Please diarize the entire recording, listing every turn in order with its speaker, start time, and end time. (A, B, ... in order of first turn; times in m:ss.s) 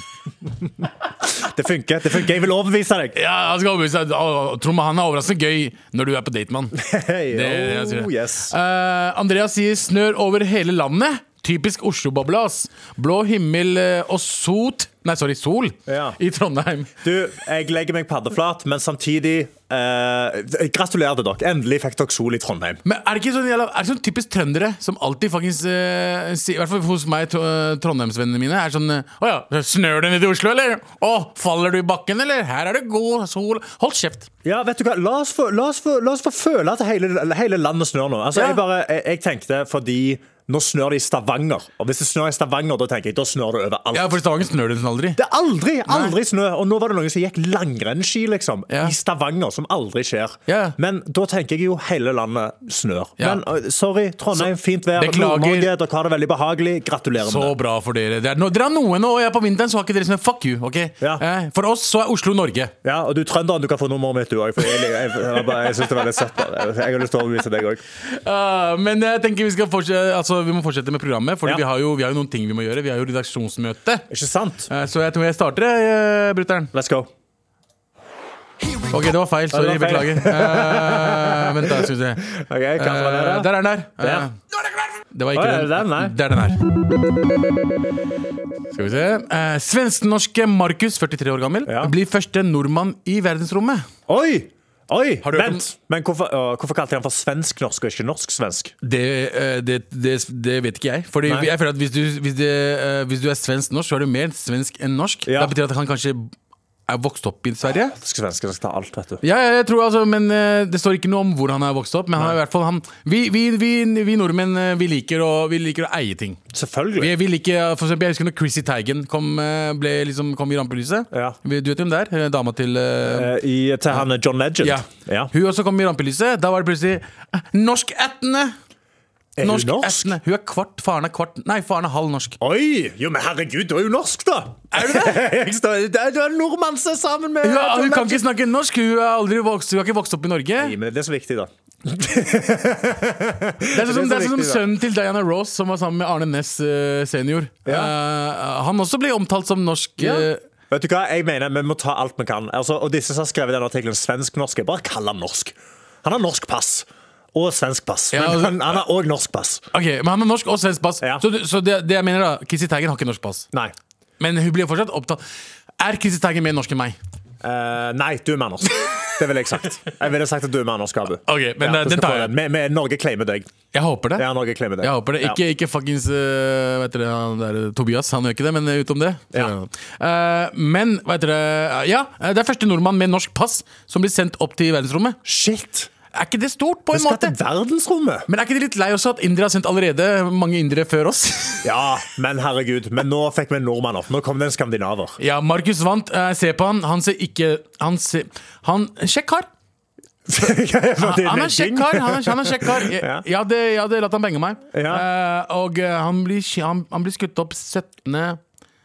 0:00.4-0:03.2 A
0:03.1-0:06.8 B
0:06.7-0:08.5 A
0:07.3-0:16.9 B
0:15.9-0:16.2 A
0:17.0-0:22.8 A
0:22.8-0:34.3 B
0:34.4-0:44.2 A
0:38.3-0:38.6 B
0:43.9-0:45.2 B
0:45.2-0:57.5 A
0:45.9-0:46.1 B
0:48.7-0:48.9 B
0:50.5-0:50.8 B
0:53.2-0:53.4 B
0:54.3-0:55.7 B
0:57.2-1:02.7 B
1:02.8-1:07.8 A
1:08.0-1:14.0 B
1:14.1-1:14.7 A
1:14.7-1:16.7 B
1:16.7-1:17.1 A
1:18.9-1:24.3 B
1:19.5-1:24.3 A
1:25.1-1:26.6 B
1:25.3-1:26.2 A
1:28.7-1:33.9 B
1:31.7-1:31.9 A
1:34.1-1:38.7 A
1:35.2-1:35.6 B
1:38.8-1:46.3 B
1:41.2-1:41.5 A
1:45.2-1:45.5 A
1:46.9-1:47.9 B
1:47.8-1:49.2 A
1:49.2-1:56.4 B
1:56.5-1:57.1 A
1:57.0-2:03.3 B
2:01.1-2:01.4 A
2:03.0-2:05.3 A
2:04.6-2:08.5 B
2:09.4-2:10.2 A
2:09.4-2:12.4 B
2:12.4-2:18.2 A
2:14.7-2:15.2 B
2:17.4-2:20.7 B
2:20.6-2:24.6 A
2:23.7-2:30.4 B
2:27.6-2:27.9 A
2:30.0-2:39.6 A
2:38.1-2:38.7 B
2:39.7-2:43.5 B
2:44.2-2:45.2 B
2:45.8-2:47.0 B
2:47.4-2:53.5 A
2:51.2-2:52.3 B
2:53.7-2:54.2 B
2:54.2-2:55.4 A
2:54.8-3:05.2 B
3:05.2-3:05.9 A
3:06.1-3:07.3 B
3:06.9-3:08.3 A
3:08.3-3:11.6 B
3:11.6-3:15.2 A
3:15.2-3:19.5 B
3:20.3-3:23.2 A
3:21.0-3:28.4 B
3:24.7-3:25.0 A